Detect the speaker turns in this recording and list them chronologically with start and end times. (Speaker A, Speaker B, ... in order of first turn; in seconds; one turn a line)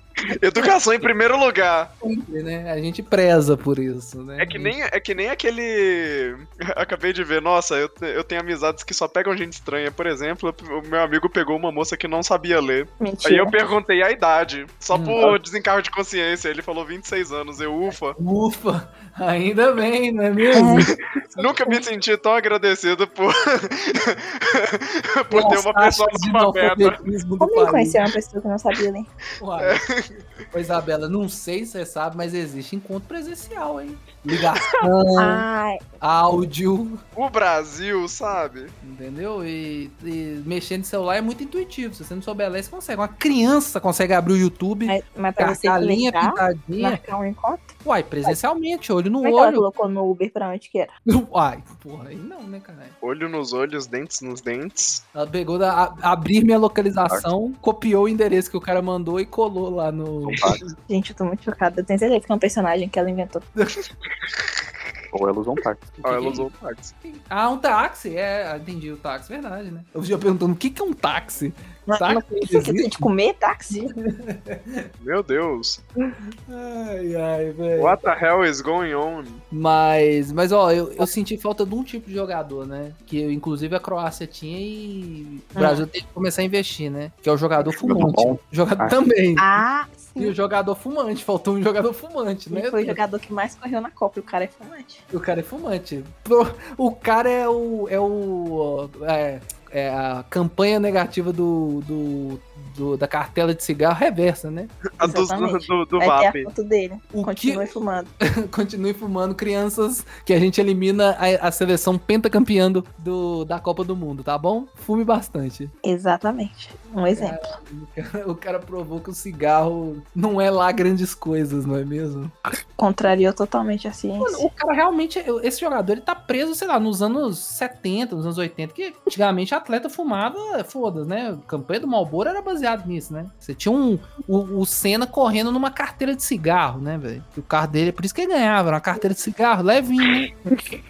Speaker A: 0.3-1.9
Speaker B: 2.0-4.8
Speaker A: 4.4-18.2
Speaker C: 13.0-13.6
Speaker B: 14.9-15.4
Speaker B: 18.2-20.9
Speaker C: 20.5-21.8
Speaker A: 20.9-26.9
Speaker B: 25.3-28.0
Speaker C: 27.4-29.1
Speaker B: 29.4-29.8
Speaker A: 29.6-30.2
Speaker B: 30.5-35.5
Speaker A: 34.5-34.8
Speaker C: 35.2-35.8
Speaker B: 36.0-37.0
Speaker A: 37.1-38.7
Speaker B: 38.8-47.0
Speaker C: 44.9-47.7
Speaker B: 47.8-49.6
Speaker C: 49.2-50.9
Speaker B: 51.1-52.9
Speaker A: 53.0-55.0
Speaker B: 55.1-60.5
Speaker D: 60.2-60.6
Speaker C: 60.9-63.5
Speaker D: 65.1-66.0
Speaker B: 66.0-66.5
Speaker A: 66.0-66.9
Speaker B: 67.0-73.1
Speaker C: 71.9-73.9
Speaker B: 73.9-74.9
Speaker A: 75.0-75.8
Speaker B: 76.2-78.0
Speaker A: 77.8-79.4
Speaker B: 79.5-89.6
Speaker C: 85.5-85.8
Speaker D: 87.6-88.9
Speaker C: 89.4-90.3
Speaker B: 90.2-93.0
Speaker C: 92.5-95.0
Speaker B: 95.1-104.7
Speaker A: 105.0-106.5
Speaker C: 105.0-108.1
Speaker B: 107.1-115.7
Speaker C: 115.8-117.5
Speaker B: 117.1-122.3
Speaker C: 122.8-124.5
Speaker B: 124.2-140.4